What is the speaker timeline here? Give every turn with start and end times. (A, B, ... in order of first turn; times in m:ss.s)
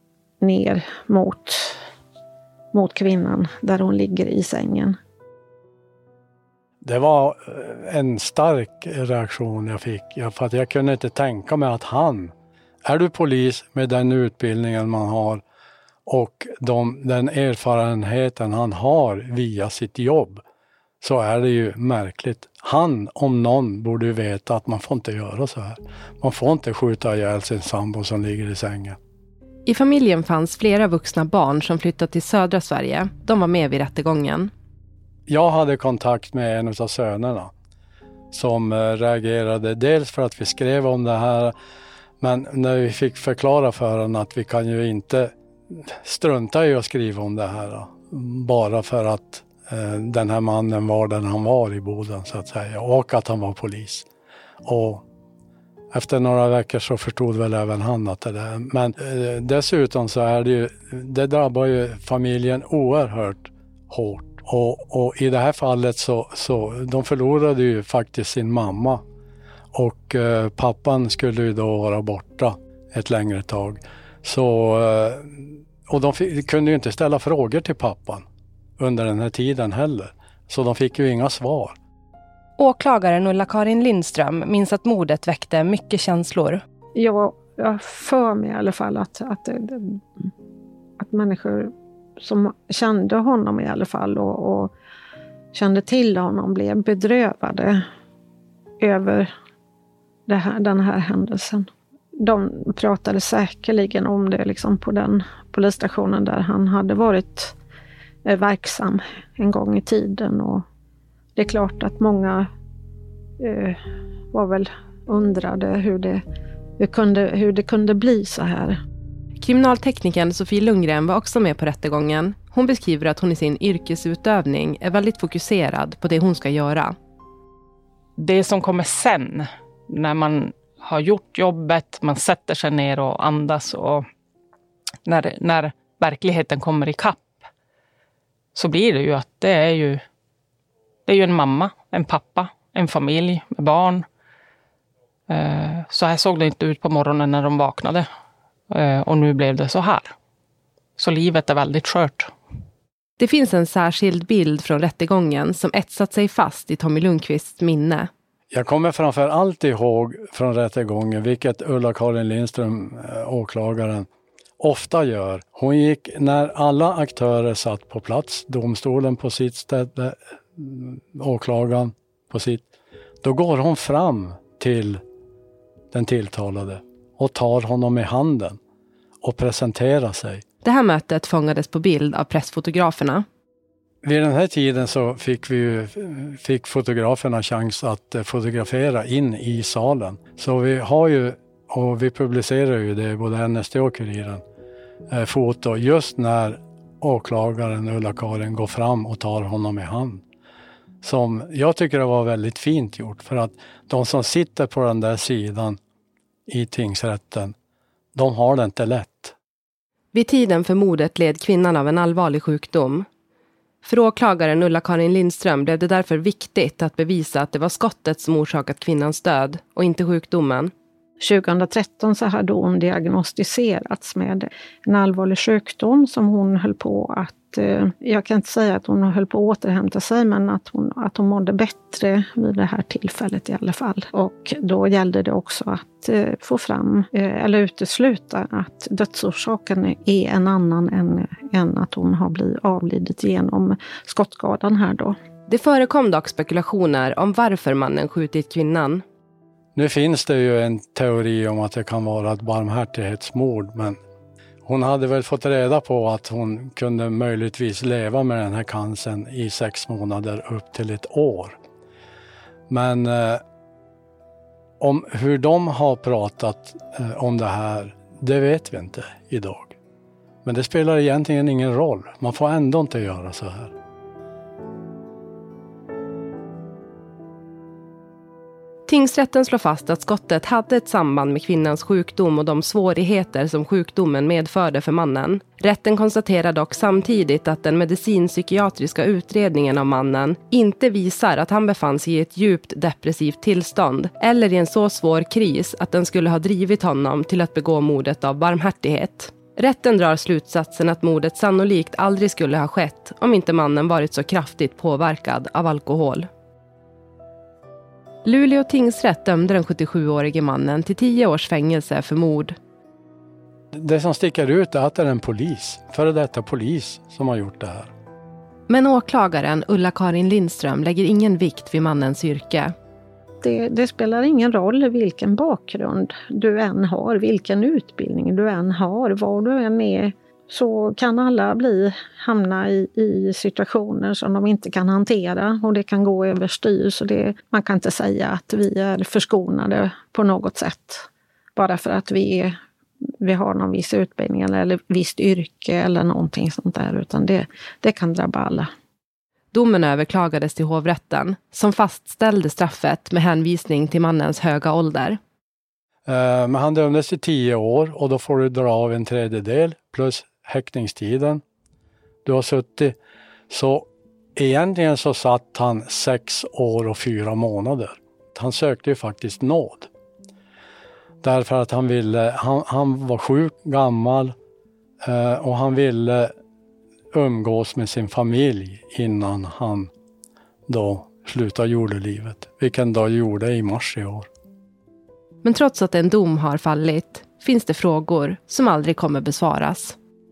0:00.4-0:01.8 A
0:02.7-0:05.0 A
0:06.8-0:12.3 B
0:12.8-0:15.4 B
0:16.1-0:20.4 B
0:21.0-0:29.0 B
0:29.6-0:34.5 C
0:35.3-0:37.5 B
0:38.3-0:41.5 B
0:42.2-0:54.1 B
0:54.6-0:55.0 B
0:55.9-1:09.0 B
1:09.7-1:18.2 B
1:18.8-1:21.8 B
1:22.6-1:26.6 C
1:27.0-1:30.0 A
1:31.0-1:34.7 A
1:35.5-1:37.8 A
1:38.8-1:39.3 A
1:40.3-1:41.6 A
1:42.2-1:47.5 A
1:48.2-1:50.6 A
1:51.4-1:52.5 A
1:53.4-1:53.8 A
1:54.3-1:56.2 A
1:56.8-1:58.8 A
1:59.4-2:06.9 C
2:08.2-2:14.0 D
2:15.0-2:17.3 D
2:18.5-2:20.0 D
2:21.0-2:24.0 D
2:25.3-2:28.0 D
2:28.7-2:30.1 D
2:31.0-2:32.3 D
2:33.2-2:38.1 C
2:38.5-2:44.0 B
2:44.6-2:52.6 B
2:53.2-2:55.0 B
2:55.9-2:58.6 B
2:59.2-3:00.4 B
3:00.6-3:03.2 C
3:04.0-3:14.4 B
3:15.1-3:20.2 B
3:21.0-3:25.8 B
3:26.5-3:27.5 B
3:28.1-3:29.3 B
3:30.1-3:33.0 C
3:33.8-3:40.7 C
3:41.2-4:05.1 A
4:05.5-4:09.0 C
4:09.7-4:14.0 B
4:14.6-4:21.6 B
4:22.7-4:23.4 B
4:24.8-4:29.7 B
4:30.4-4:33.7 B
4:38.9-5:06.3 C
5:08.2-5:12.6 C
5:13.8-5:17.9 B
5:18.7-5:22.7 C
5:23.4-5:42.5 A
5:43.2-5:48.7 A
5:49.5-5:55.2 C
5:56.1-6:01.4 B
6:02.2-6:03.0 B
6:03.5-6:09.9 B
6:11.2-6:14.3 B
6:15.0-6:16.3 B
6:17.1-6:19.9 B
6:20.7-6:24.3 B
6:25.4-6:30.0 C